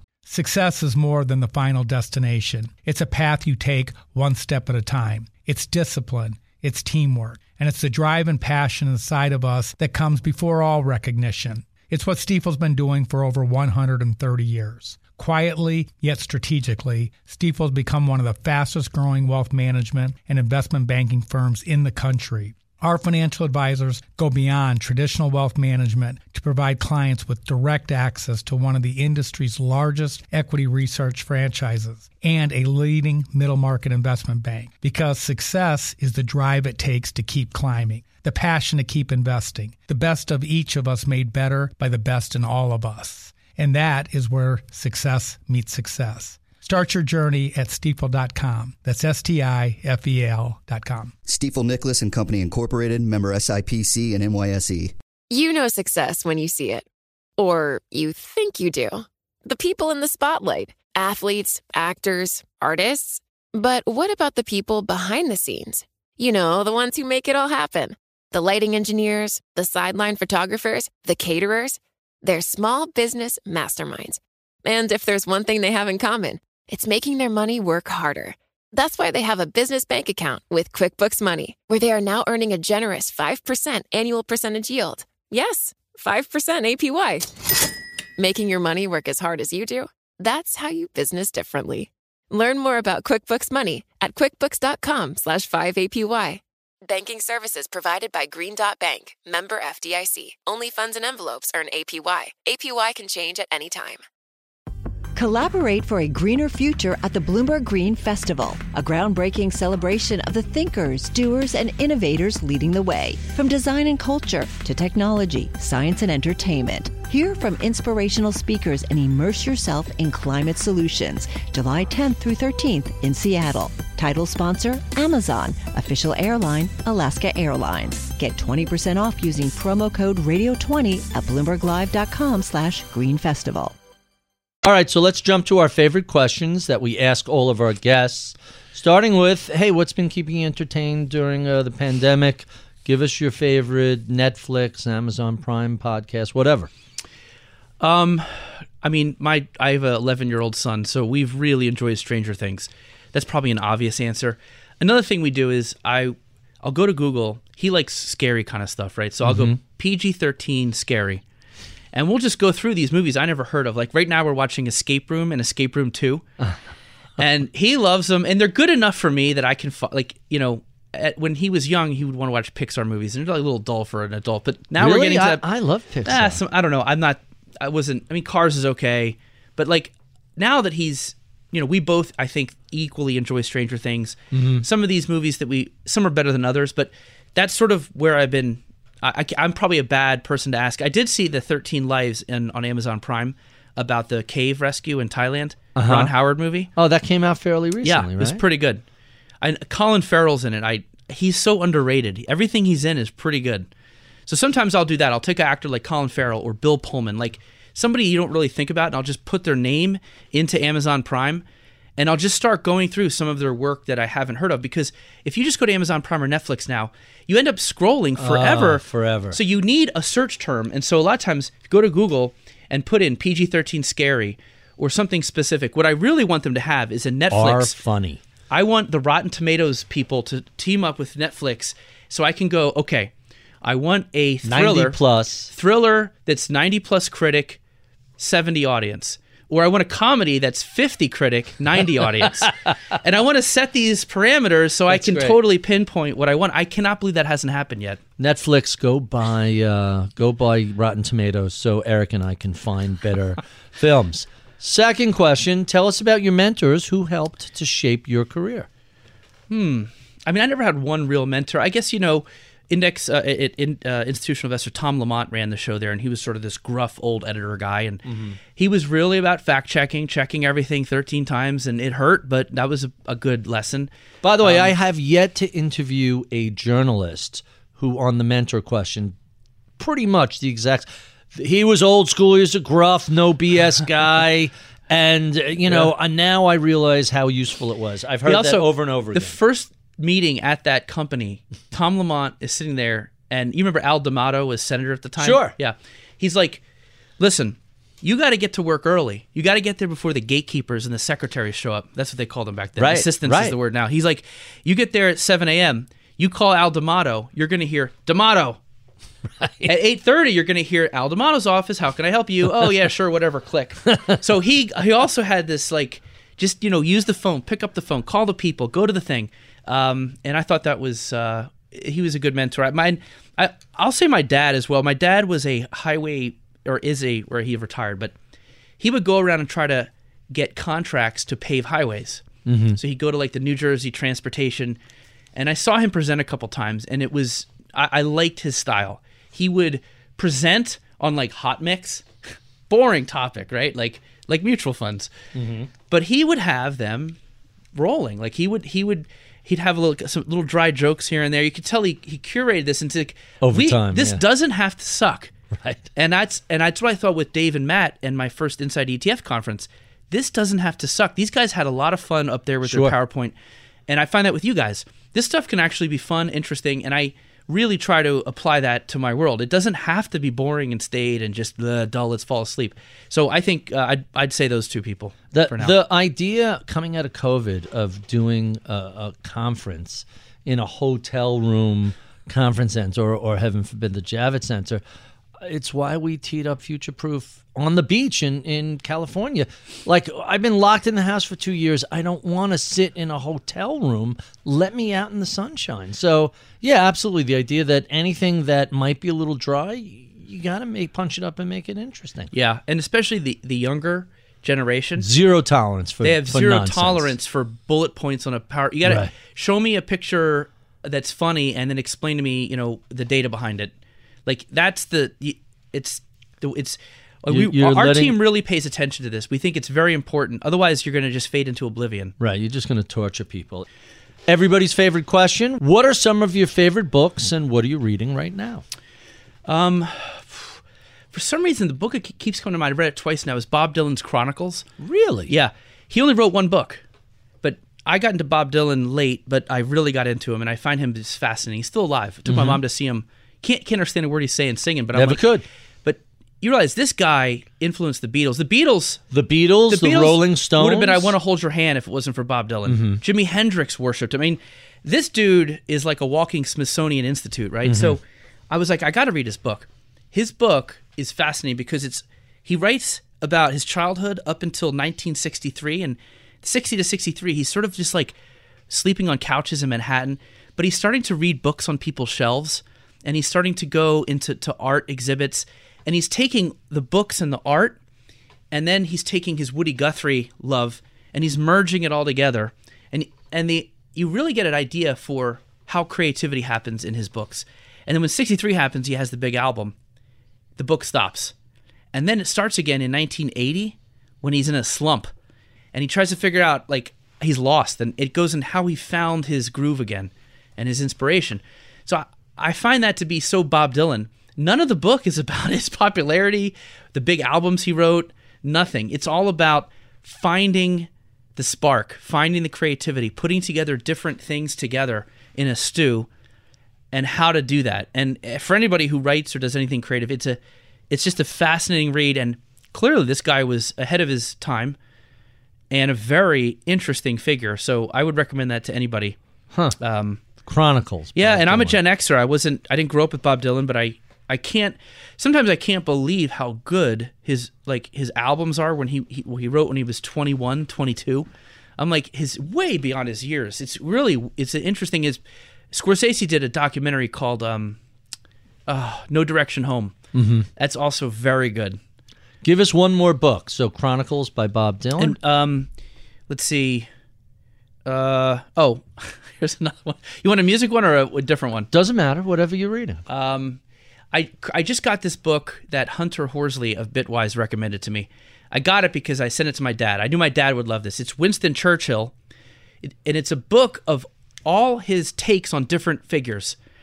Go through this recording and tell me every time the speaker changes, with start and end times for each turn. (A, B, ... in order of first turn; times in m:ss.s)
0:00.2-0:51.1 A
0:51.3-0:54.9 B
0:55.3-0:56.8 C
0:57.4-1:27.3 C
1:28.2-1:44.0 C
1:45.1-2:13.7 D
2:14.6-2:26.7 E
2:27.8-2:41.2 F
2:39.2-2:39.6 E
2:41.9-2:46.2 F
2:47.2-2:55.4 F
2:54.8-2:56.4 E
2:56.0-3:16.7 F
3:04.3-3:04.6 E
3:15.8-3:16.1 E
3:16.8-3:18.4 E
3:17.8-3:18.8 F
3:19.4-3:23.7 F
3:24.3-3:31.4 F
3:32.0-3:47.7 F
3:38.2-3:39.4 E
3:47.3-3:48.2 E
3:48.5-3:53.1 F
3:53.6-3:55.0 F
3:54.4-3:55.5 E
3:55.5-3:57.6 F
3:58.2-4:08.0 F
4:04.9-4:05.4 E
4:08.2-4:18.7 E
4:19.5-4:28.0 F
4:28.0-4:28.4 E
4:28.5-4:33.9 F
4:34.2-4:39.1 E
4:34.4-4:34.7 F
4:39.8-4:49.4 E
4:48.2-4:56.6 F
4:55.2-4:55.5 E
4:57.2-5:08.6 F
5:02.8-5:03.6 E
5:09.4-5:09.7 E
5:09.6-5:28.1 F
5:28.8-5:32.2 F
5:32.4-5:32.8 E
5:32.8-5:34.8 F
5:35.4-5:42.0 F
5:42.7-5:45.1 F
5:45.3-5:45.7 E
5:45.9-5:47.2 F
5:47.7-5:55.3 F
5:53.4-5:54.2 E
5:55.5-5:55.9 E
5:55.9-6:03.3 F
6:02.6-6:02.9 E
6:03.9-6:15.8 F
6:15.3-6:24.8 E
6:25.4-6:42.3 E
6:42.3-6:45.1 F
6:45.0-6:47.1 E
6:46.0-6:53.7 F
6:48.8-6:49.1 E
6:54.2-7:02.1 F
6:57.3-6:58.2 E
7:02.2-7:03.7 E
7:04.3-7:08.6 E
7:09.5-7:10.6 F
7:11.1-7:14.6 F
7:14.8-7:15.3 E
7:15.3-7:16.8 F
7:17.4-7:25.2 F
7:22.3-7:22.6 E
7:24.9-7:25.4 E
7:25.8-7:29.0 F
7:29.1-7:31.1 E
7:29.7-7:48.1 F
7:32.7-7:33.0 E
7:37.6-7:38.0 E
7:48.7-7:57.8 F
7:58.5-8:09.7 F
8:10.6-8:11.3 F
8:11.9-8:15.1 F
8:15.7-8:36.1 F
8:36.9-8:40.4 F
8:40.9-8:44.8 F
8:45.7-8:49.2 F
8:49.8-8:50.2 F
8:50.4-8:51.8 E
8:51.1-9:05.2 F
9:05.7-9:07.8 F
9:08.7-9:09.9 F
9:10.1-9:10.5 E
9:10.6-9:11.8 F
9:12.4-9:15.2 E
9:15.0-9:15.7 F
9:16.3-9:16.9 F
9:17.8-9:21.7 F
9:21.7-9:23.0 E
9:23.1-9:23.6 F
9:24.1-9:32.1 F
9:32.8-9:36.6 F